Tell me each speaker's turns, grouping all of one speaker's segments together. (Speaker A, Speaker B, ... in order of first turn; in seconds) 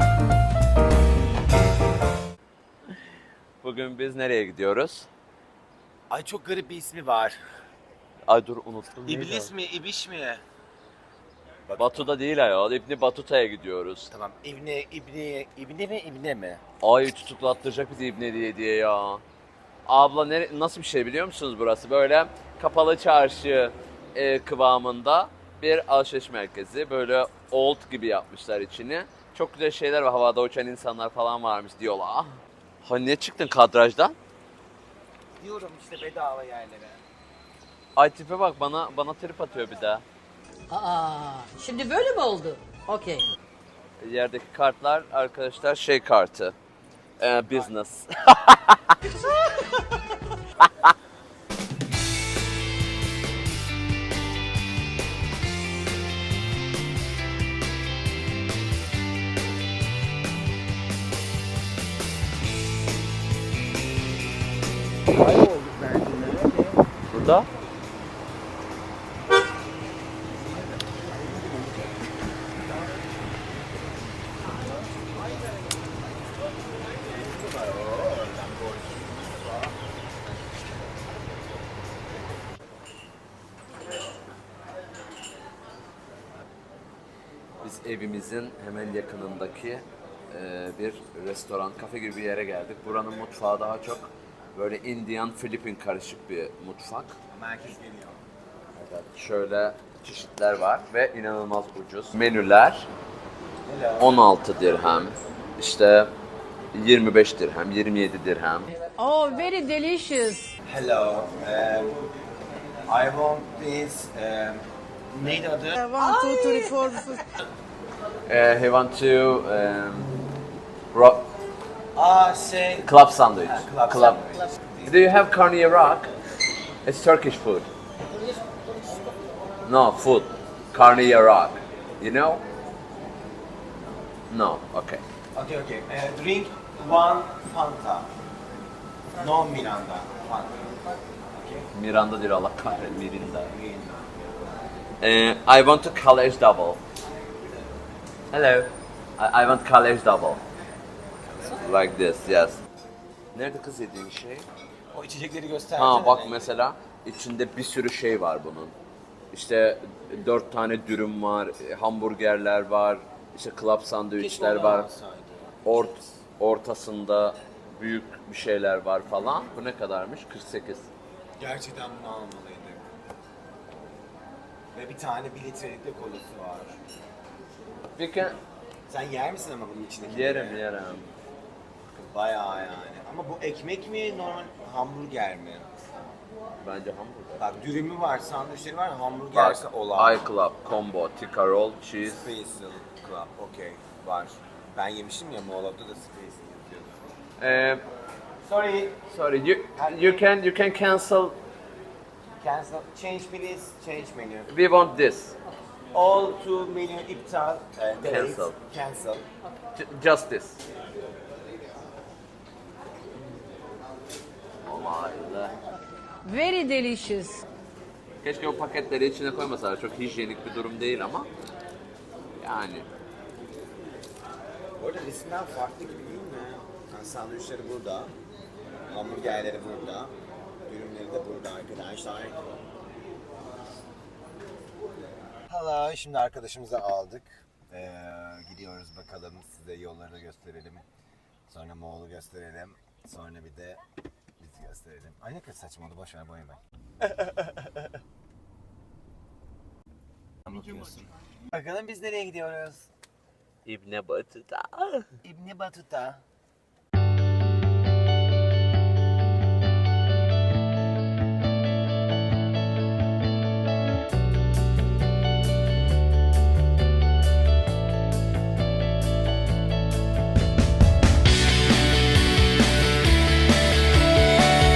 Speaker A: 3.6-5.1, 8.3-9.5, 11.8-14.1, 16.8-19.2, 19.9-34.2, 38.0-40.0, 44.0-46.5, 47.2-49.3, 50.6-50.9, 67.1-67.5, 87.6-97.2, 98.7-102.9, 104.0-106.1, 106.7-108.7, 118.2-120.1, 120.9-121.2, 122.8-124.2, 124.8-126.1, 126.8-127.7, 129.7-132.4, 134.3-135.0, 141.7-143.5, 145.0-146.8, 148.3-150.4, 151.4-152.6, 153.3-154.5, 155.8-158.7, 159.3-164.9, 165.6-170.9, 177.9-178.3, 180.1-181.1, 186.6-187.4, 189.3-192.3, 197.4-197.8, 199.1-201.4, 204.5-205.3, 208.0-208.6, 209.7-210.6, 214.6-215.6, 218.2-221.3, 222.4-222.9, 253.6-255.1
Speaker B: 6.1-7.4, 9.1-10.4, 11.7-12.1, 14.1-16.6, 35.4-37.0, 65.1-66.8, 70.5-71.8, 77.0-79.7, 97.3-98.2, 103.6-104.2, 110.6-112.0, 112.8-115.9, 121.9-122.9, 123.4-124.9, 135.3-138.1, 139.2-140.7, 141.4-141.7, 143.4-144.1, 154.9-156.5, 164.2-165.5, 171.4-172.9, 174.7-176.8, 178.9-180.6, 181.9-185.7, 187.4-190.3, 192.0-197.0, 198.4-199.0, 199.7-200.3, 202.4-204.5, 205.9-209.3, 224.8-228.1, 228.9-230.1, 230.7-232.4, 235.5-240.8, 241.5-243.8, 244.4-247.9, 250.4-252.9, 255.2-256.2
Speaker C: 40.7-43.3, 108.8-110.5, 115.8-117.2, 216.2-217.4